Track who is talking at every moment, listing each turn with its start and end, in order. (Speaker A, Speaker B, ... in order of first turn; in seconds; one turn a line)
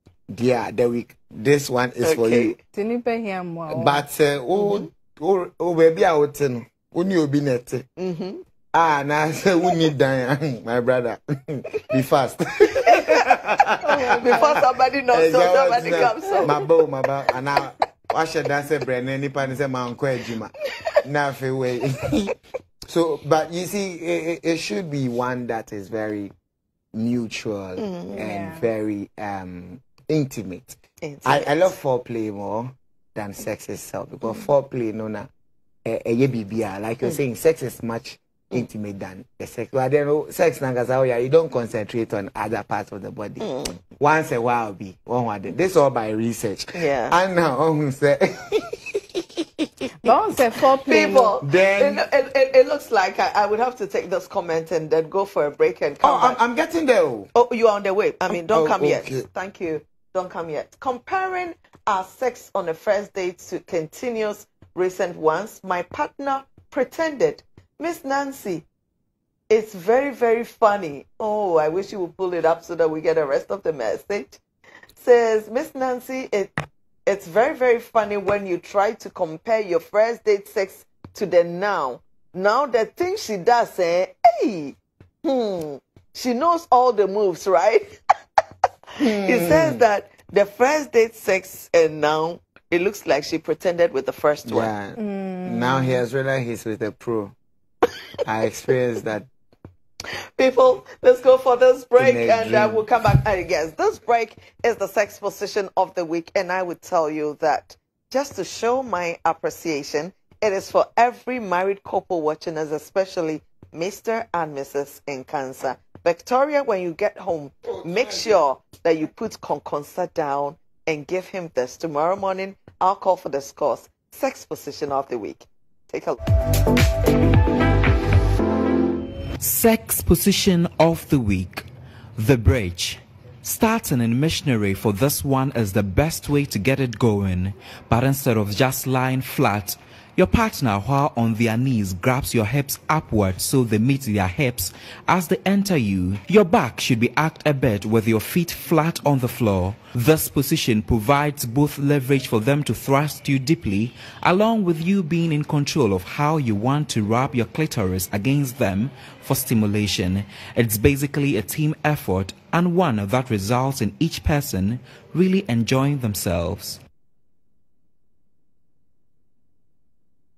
Speaker A: 0.3-2.5
Speaker B: 2.0-2.6
Speaker C: 2.7-4.1
Speaker A: 3.7-7.9
Speaker B: 4.5-4.9
Speaker B: 8.0-8.4
Speaker A: 8.7-22.4
Speaker C: 13.8-14.6
Speaker B: 14.0-16.7
Speaker A: 22.9-26.3
Speaker A: 26.9-35.3
Speaker B: 27.8-28.2
Speaker C: 28.1-28.7
Speaker B: 31.0-31.7
Speaker A: 35.9-49.7
Speaker B: 43.4-43.8
Speaker B: 46.8-47.2
Speaker C: 50.0-51.4
Speaker B: 50.9-56.4
Speaker A: 51.1-52.0
Speaker A: 56.0-57.3
Speaker B: 57.4-68.7
Speaker A: 58.3-59.3
Speaker B: 69.5-74.4
Speaker B: 75.0-76.5
Speaker B: 77.1-87.9
Speaker A: 89.0-89.8
Speaker B: 89.0-94.7
Speaker A: 94.5-97.3
Speaker C: 95.0-96.0
Speaker A: 98.2-99.3
Speaker B: 100.1-126.2
Speaker A: 102.0-102.9
Speaker A: 117.7-118.4
Speaker D: 129.4-166.8